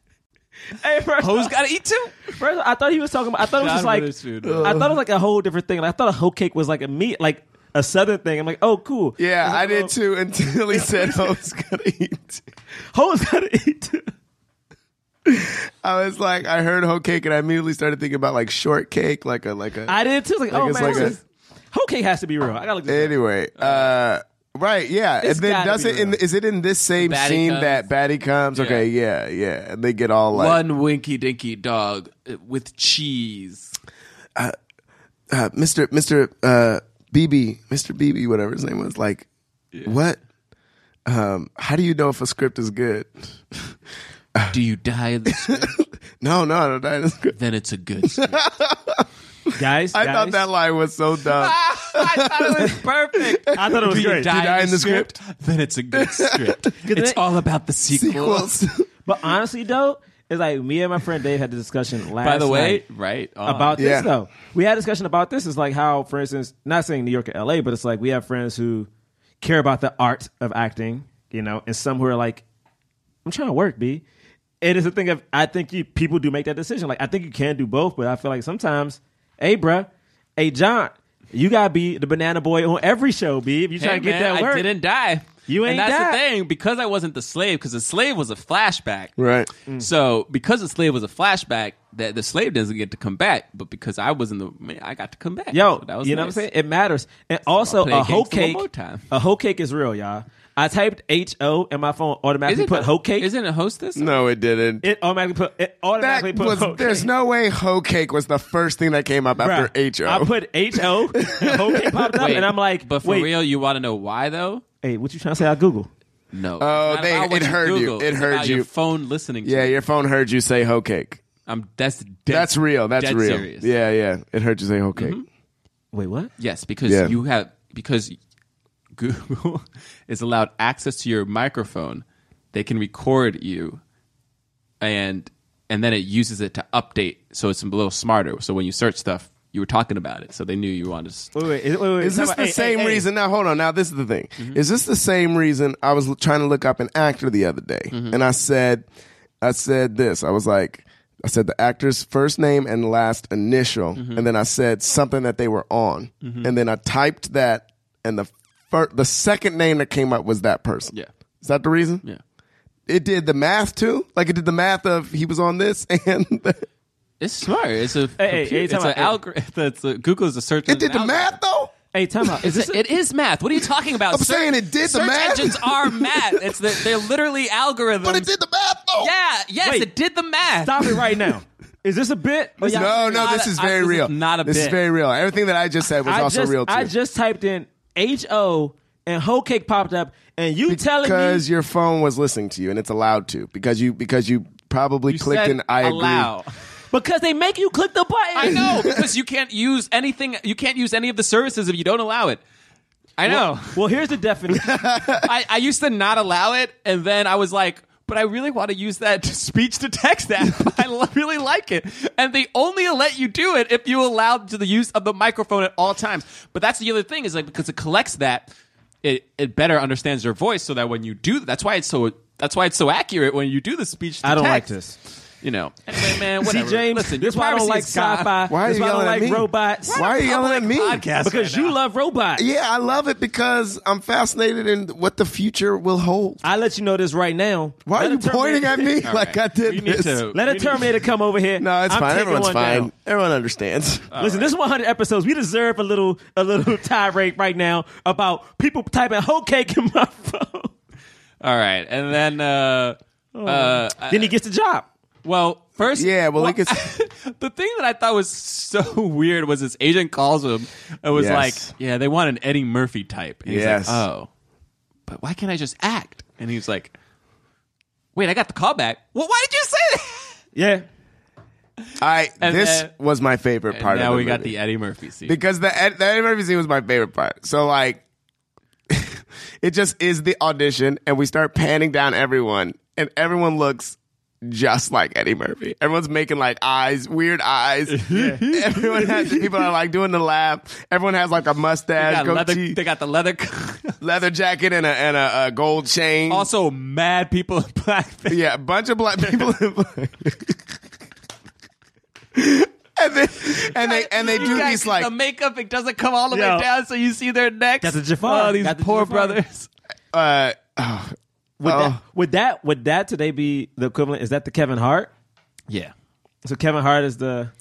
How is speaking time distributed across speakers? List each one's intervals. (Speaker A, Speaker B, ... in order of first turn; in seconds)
Speaker A: 0.7-1.5, 2.3-4.1, 4.6-9.9, 10.7-11.2, 12.9-14.1, 19.9-23.1, 25.2-26.2, 49.6-50.4, 53.5-54.3, 56.9-57.2, 59.0-62.8, 63.4-68.9, 69.4-72.4, 73.2-74.0, 74.6-84.7, 85.5-86.2, 95.5-103.3, 104.8-107.1, 109.4-113.3, 114.8-115.9, 125.9-126.3, 141.3-143.0, 168.2-169.2, 171.9-172.8, 179.6-179.9, 180.6-183.3, 186.1-191.4, 196.9-198.7, 203.3-204.8, 224.2-224.9, 226.1-230.0, 231.2-232.4, 236.4-239.0, 240.3-242.9, 244.2-250.7, 253.3-254.9, 270.5-270.8, 288.1-288.4, 304.2-304.7, 306.3-306.6, 307.8-309.4, 311.6-315.1, 316.4-317.5
Speaker B: 1.2-2.3, 3.5-4.7, 20.8-21.1, 23.6-23.9, 27.0-27.9, 28.5-28.9, 30.3-33.7, 44.5-45.8, 47.4-48.4, 51.3-58.5, 62.2-63.8, 83.8-89.2, 89.8-96.4, 97.6-99.0, 102.5-104.2, 112.1-114.6, 116.3-119.8, 121.5-123.7, 125.0-125.2, 126.4-128.2, 129.0-133.8, 134.8-141.3, 147.9-148.2, 153.9-154.2, 156.2-156.5, 167.2-171.3, 172.4-178.3, 179.0-181.1, 182.6-184.8, 195.1-196.5, 198.3-202.4, 203.2-203.8, 205.2-218.5, 219.0-224.7, 225.4-228.3, 229.8-231.7, 239.0-240.9, 244.1-244.5, 251.4-254.3, 255.2-264.3, 265.1-266.9, 268.1-270.4, 272.4-272.9, 273.7-275.4, 287.9-289.6, 292.0-293.9, 296.3-298.4, 303.7-309.7
Speaker C: 4.4-4.9, 9.2-12.4, 15.2-19.9, 20.5-21.2, 22.9-30.6, 35.3-39.2, 39.8-40.2, 41.1-43.7, 45.2-47.4, 48.0-55.1, 55.9-56.6, 57.9-58.9, 63.8-64.1, 89.2-89.5, 104.0-104.8, 106.0-110.3, 111.1-111.9, 116.6-118.7, 119.4-121.2, 122.3-125.2, 126.8-127.1, 142.0-148.8, 149.4-162.0, 162.9-166.6, 170.7-171.7, 174.1-177.0, 178.0-179.1, 182.7-186.9, 190.7-196.3, 198.6-199.0, 204.5-205.3, 228.5-231.0, 232.3-236.4, 237.8-240.2, 241.6-244.1, 255.9-256.8, 261.1-261.7, 263.4-264.0, 272.0-274.5, 275.2-278.0, 278.9-292.8, 294.0-296.5, 298.3-300.6, 302.3-305.1, 310.1-312.0